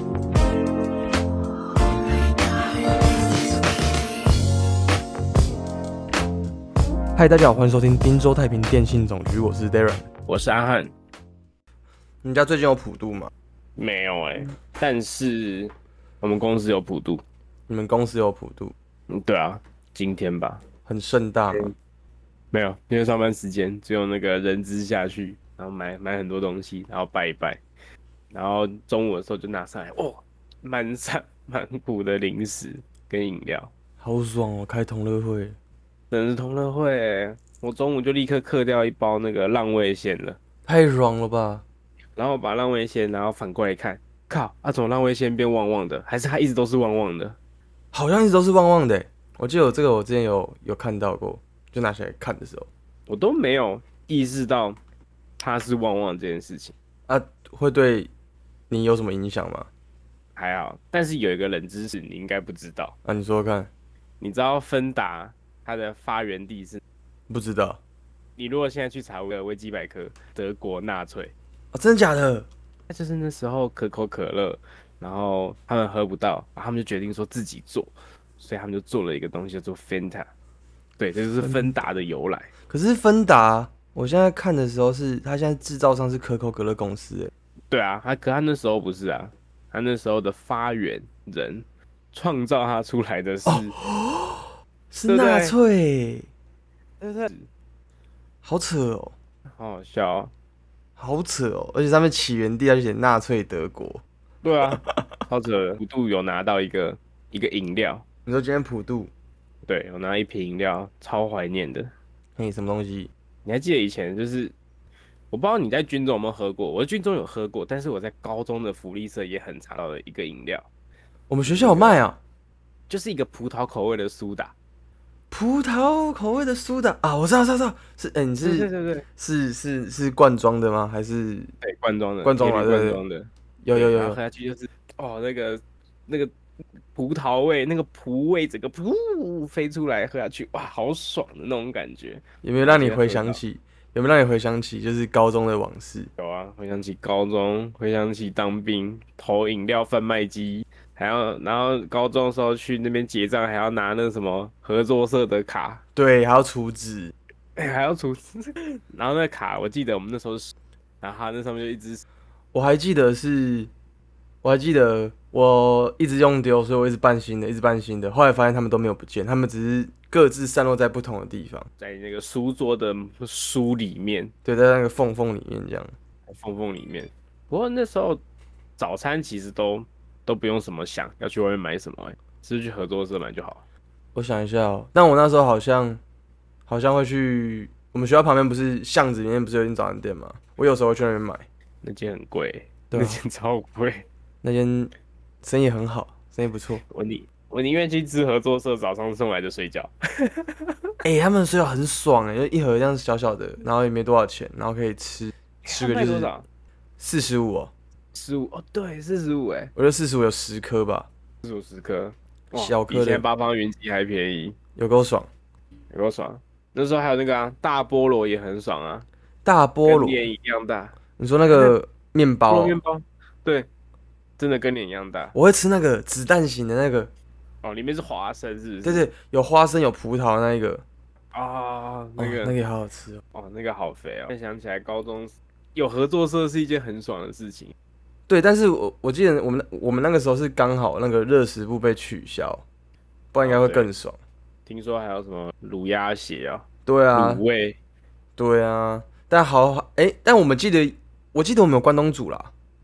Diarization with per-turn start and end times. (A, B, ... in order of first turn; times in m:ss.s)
0:07.2-0:10.0 A
0:10.3-0:10.9 B
0:12.2-0:13.3 A
0:13.8-0:17.2 B
0:17.7-0:18.7 A
0:19.1-0:20.6 B
0:20.9-0:21.7 A
0:22.5-0:27.6 B
0:28.3-0:33.7 B
0:34.0-0:35.6 A
0:36.1-0:40.4 B
0:40.7-0:41.6 A
0:42.2-0:47.4 B
0:47.9-0:52.7 A
0:53.1-0:54.8 B
0:55.4-0:56.7 B
0:57.1-0:58.1 A
0:58.7-0:59.7 A
1:00.4-1:03.0 B
1:03.0-1:03.7 A
1:04.2-1:06.8 B
1:07.3-1:07.8 A
1:08.4-1:11.3 B
1:11.7-1:12.5 A
1:12.9-1:20.3 B
1:21.0-1:22.5 B
1:21.4-1:21.7 A
1:22.7-1:27.3 A
1:27.7-1:33.7 B
1:33.4-1:36.3 A
1:35.1-1:35.6 B
1:37.0-1:37.5 B
1:38.4-1:39.1 A
1:39.5-1:40.3 B
1:41.0-1:44.0 A
1:44.4-1:48.0 B
1:48.3-1:49.1 A
1:49.6-1:51.9 B
1:52.4-1:53.1 A
1:53.4-1:54.6 B
1:55.3-2:00.7 B
2:01.3-2:02.2 A
2:01.4-2:02.0 B
2:02.9-2:04.5 B
2:05.3-2:11.5 A
2:08.4-2:09.0 B
2:11.6-2:16.3 B
2:12.2-2:13.0 A
2:13.6-2:14.2 A
2:16.9-2:23.4 B
2:22.4-2:26.1 A
2:26.2-2:35.8 B
2:36.0-2:37.1 A
2:37.6-2:42.0 B
2:42.5-2:43.7 A
2:44.4-2:51.7 A
2:51.8-2:54.3 B
2:54.4-2:55.9 A
2:56.3-2:58.2 B
2:58.8-3:03.6 B
3:04.1-3:06.0 A
3:06.7-3:11.5 A
3:11.8-3:14.1 B
3:12.9-3:13.2 A
3:14.4-3:14.9 A
3:15.4-3:16.8 A
3:16.9-3:20.7 B
3:21.0-3:26.3 A
3:25.7-3:26.4 B
3:27.0-3:27.7 A
3:28.1-3:29.7 B
3:29.8-3:31.1 A
3:31.4-3:34.6 B
3:32.5-3:33.2 A
3:34.8-3:35.3 A
3:35.9-3:39.1 B
3:39.4-3:40.3 A
3:39.8-3:41.0 B
3:41.2-3:42.8 A
3:41.5-3:41.8 B
3:42.5-3:43.7 B
3:44.4-3:45.4 B
3:45.3-3:47.1 A
3:47.6-3:49.1 B
3:48.8-3:50.8 A
3:51.3-3:52.6 B
3:52.2-3:53.2 A
3:53.3-3:57.7 B
3:58.3-4:02.6 A
4:03.3-4:04.2 A
4:03.4-4:03.9 B
4:04.7-4:07.8 B
4:06.9-4:07.4 A
4:08.4-4:12.5 A